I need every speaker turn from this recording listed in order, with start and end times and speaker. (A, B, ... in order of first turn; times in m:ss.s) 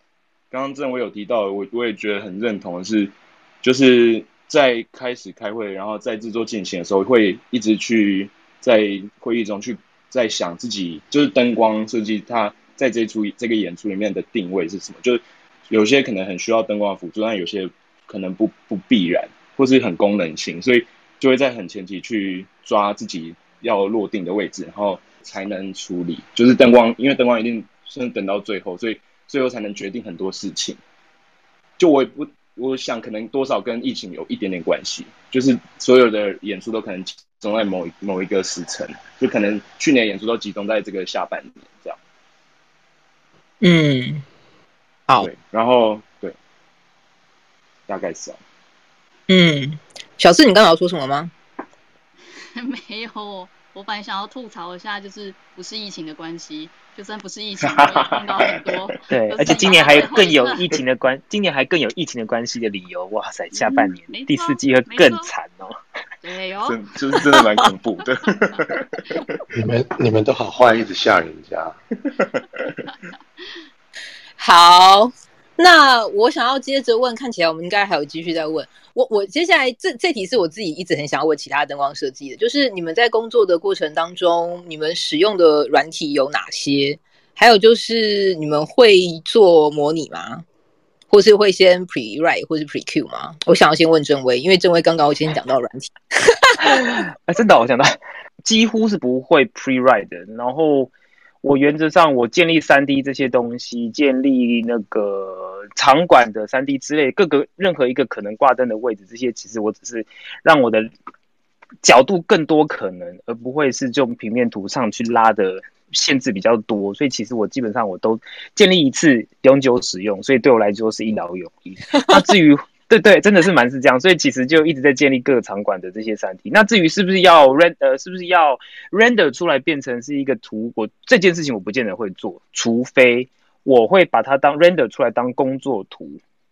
0:00.5-0:30.8 A
0:31.8-0:42.0 A
0:43.6-0:44.2 B
0:45.2-0:46.4 A
0:47.9-0:48.4 A
0:49.3-0:51.3 B
0:52.4-1:00.6 C
0:57.6-0:58.9 A
0:59.1-1:05.8 D
1:03.5-1:05.3 C
1:06.2-1:06.8 C
1:06.6-1:09.4 A
1:09.5-1:11.8 E
1:12.2-1:12.8 A
1:14.4-1:30.4 B
1:31.1-1:36.6 B
1:36.7-1:40.9 D
1:41.4-1:50.9 D
1:51.8-2:16.2 D